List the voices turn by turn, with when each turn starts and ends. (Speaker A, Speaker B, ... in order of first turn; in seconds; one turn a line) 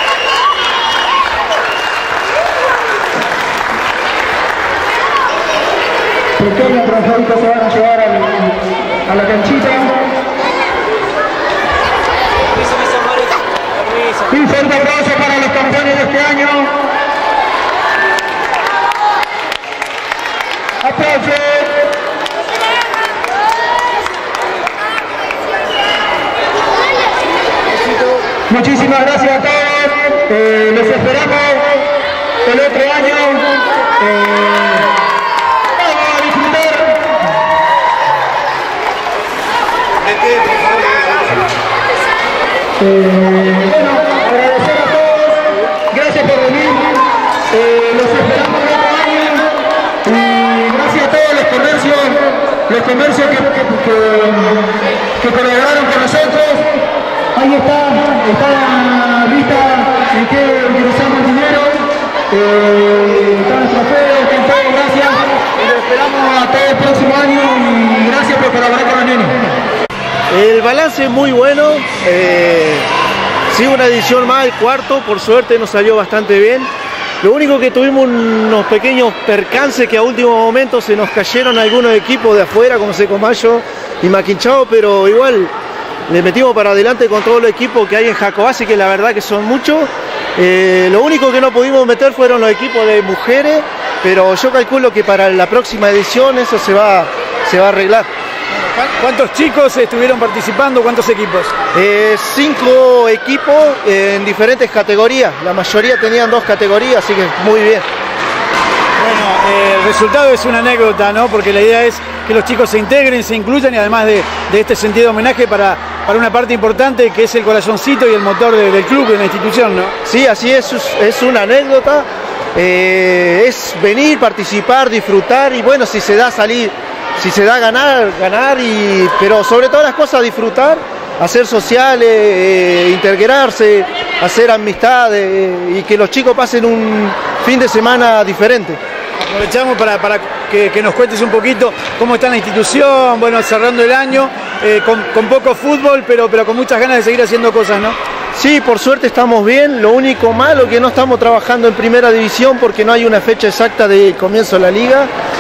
Speaker A: 6.4-10.1
Speaker A: 14.3-16.8
Speaker A: 20.8-21.9
Speaker A: 28.5-31.9
Speaker A: 32.4-34.9
Speaker A: 35.8-37.2
Speaker A: 42.8-47.0
Speaker A: 47.5-69.5
Speaker B: 70.3-72.9
Speaker B: 73.5-76.7
Speaker B: 77.2-85.5
Speaker B: 86.1-98.1
Speaker C: 98.8-101.5
Speaker B: 101.7-107.8
Speaker C: 109.0-120.0
Speaker B: 120.0-138.8
Speaker C: 139.2-148.0
Speaker B: 148.3-155.1